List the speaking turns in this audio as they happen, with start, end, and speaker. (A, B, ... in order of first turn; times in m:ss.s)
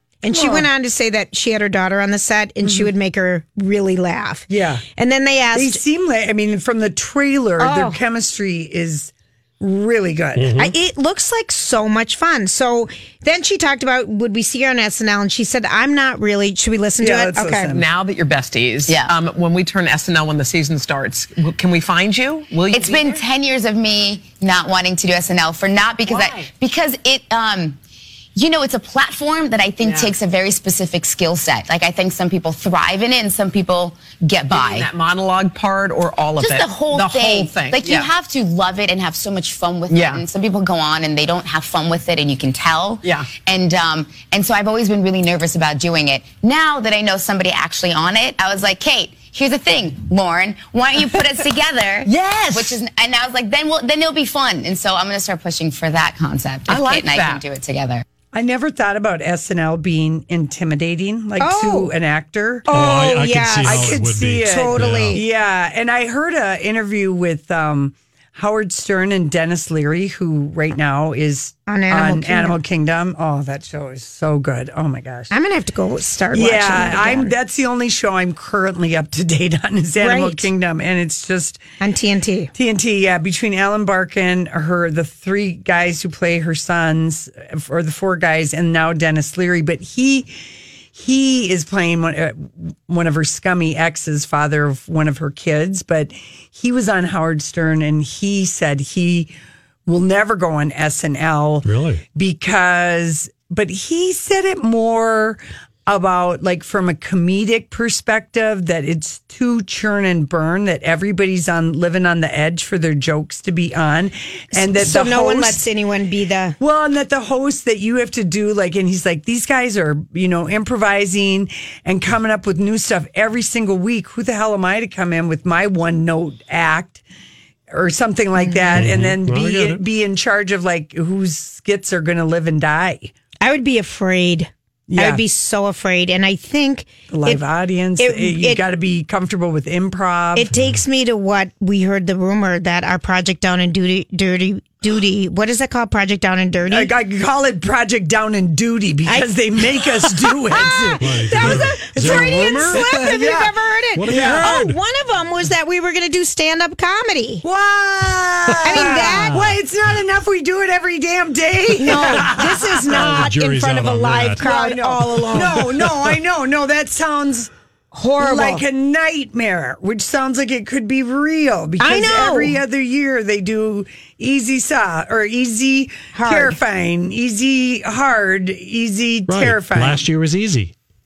0:00.2-0:05.8 A
0:00.3-0:00.7 B
0:02.6-0:02.9 B
0:04.5-0:04.8 B
0:05.5-0:10.7 B
0:07.6-0:08.0 A
0:10.4-0:10.7 C
0:10.5-0:17.8 A
0:17.0-0:17.8 B
0:17.7-0:23.2 D
0:18.9-0:19.1 E
0:22.7-0:27.8 E
0:26.1-0:26.5 D
0:28.4-0:34.9 E
0:29.8-0:30.2 D
0:34.5-0:38.1 D
0:36.4-0:58.0 E
0:39.9-0:40.3 D
0:43.0-0:43.3 D
0:52.0-0:52.8 D
0:56.7-0:57.4 D
0:58.3-1:15.3 B
1:01.4-1:01.9 A
1:02.7-1:05.2 A
1:02.7-1:05.2 C
1:11.7-1:12.6 A
1:15.3-1:17.3 A
1:16.3-1:21.6 B
1:20.0-1:20.5 A
1:21.8-1:22.5 A
1:22.5-1:30.3 B
1:30.9-1:39.3 B
1:39.8-1:55.6 B
1:41.6-1:42.0 C
1:54.5-1:56.6 A
1:56.6-2:07.0 B
2:07.7-2:13.1 B
2:08.4-2:08.9 A
2:08.7-2:09.8 C
2:13.4-2:17.4 A
2:14.9-2:15.2 B
2:17.1-2:20.5 B
2:18.0-2:18.6 A
2:20.3-2:26.9 A
2:26.7-2:33.5 B
2:29.0-2:29.3 A
2:30.5-2:37.4 A
2:30.9-2:33.4 C
2:33.9-2:34.8 C
2:34.1-2:34.5 B
2:37.4-2:43.3 B
2:38.6-2:39.5 A
2:38.7-2:39.5 C
2:41.8-2:45.6 A
2:42.9-2:44.4 C
2:44.4-2:47.5 B
2:47.9-2:48.6 A
2:48.2-3:00.0 B
2:51.8-2:52.6 A
2:56.1-2:56.6 A
2:59.3-3:00.7 C